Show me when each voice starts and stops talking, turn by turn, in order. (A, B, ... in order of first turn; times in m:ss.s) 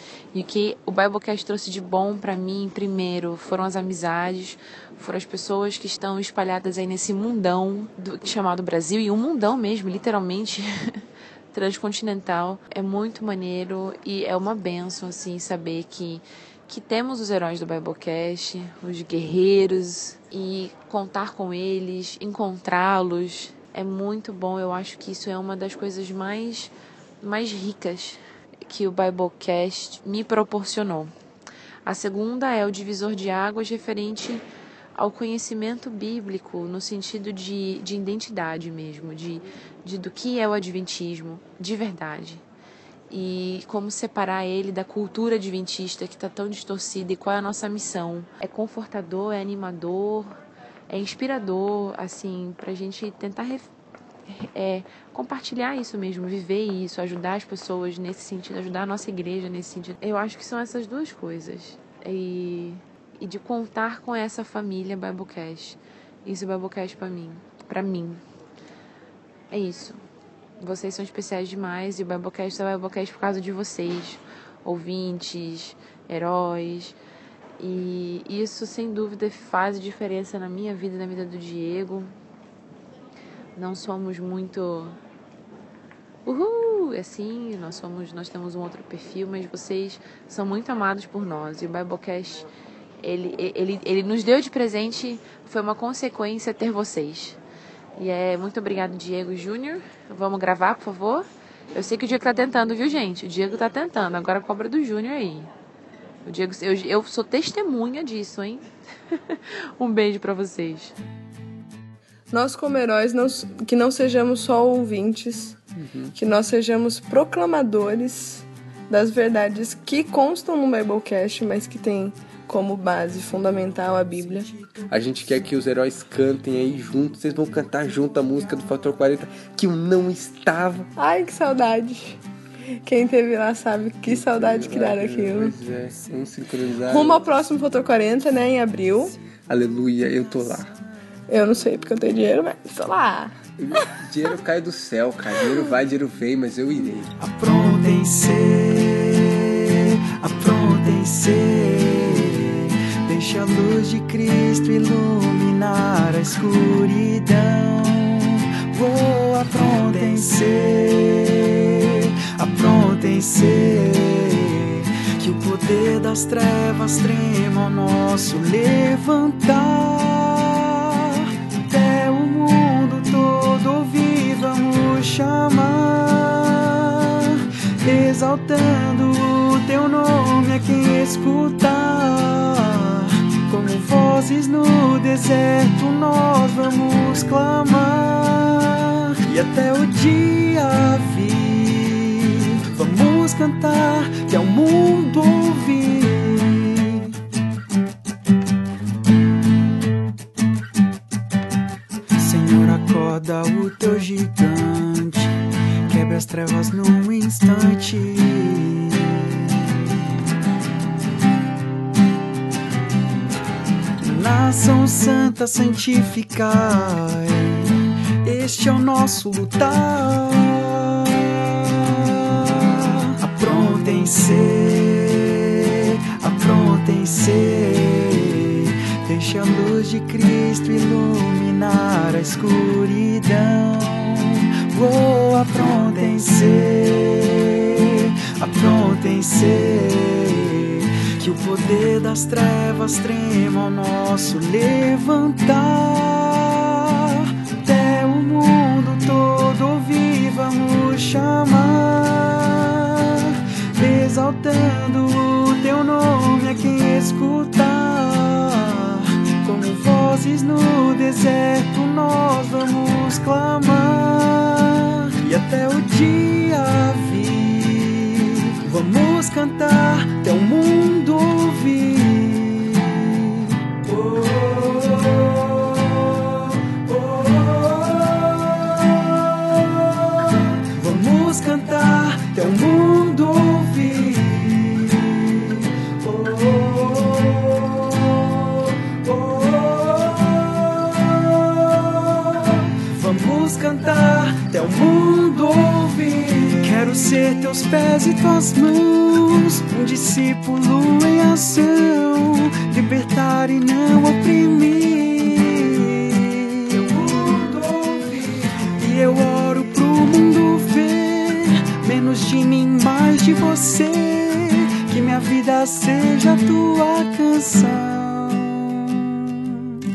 0:00.3-0:10.7 A
0:11.5-0:31.1 A
0:31.8-0:34.4 A
0:35.0-0:42.4 A
0:43.1-0:50.3 A
0:50.9-0:53.6 A
0:54.3-1:08.2 A
1:09.5-1:10.0 A
1:10.6-1:17.0 A
1:17.6-1:22.1 A
1:23.5-1:25.0 A
1:26.2-1:32.5 A
1:33.0-1:37.4 A
1:38.0-1:45.5 A
1:46.2-1:50.9 A
1:52.3-1:55.6 B
1:55.8-1:56.1 C
1:56.1-2:04.5 B
2:04.9-2:10.9 C
2:11.0-2:12.2 B
2:12.8-2:15.5 B
2:14.0-2:17.2 C
2:16.9-2:19.1 B
2:19.5-2:20.7 C
2:21.3-2:23.4 B
2:23.6-2:27.1 C
2:27.2-3:17.1 D
3:22.2-3:25.3 D
3:25.9-3:29.6 D
3:34.0-3:37.7 D
3:38.2-5:19.6 D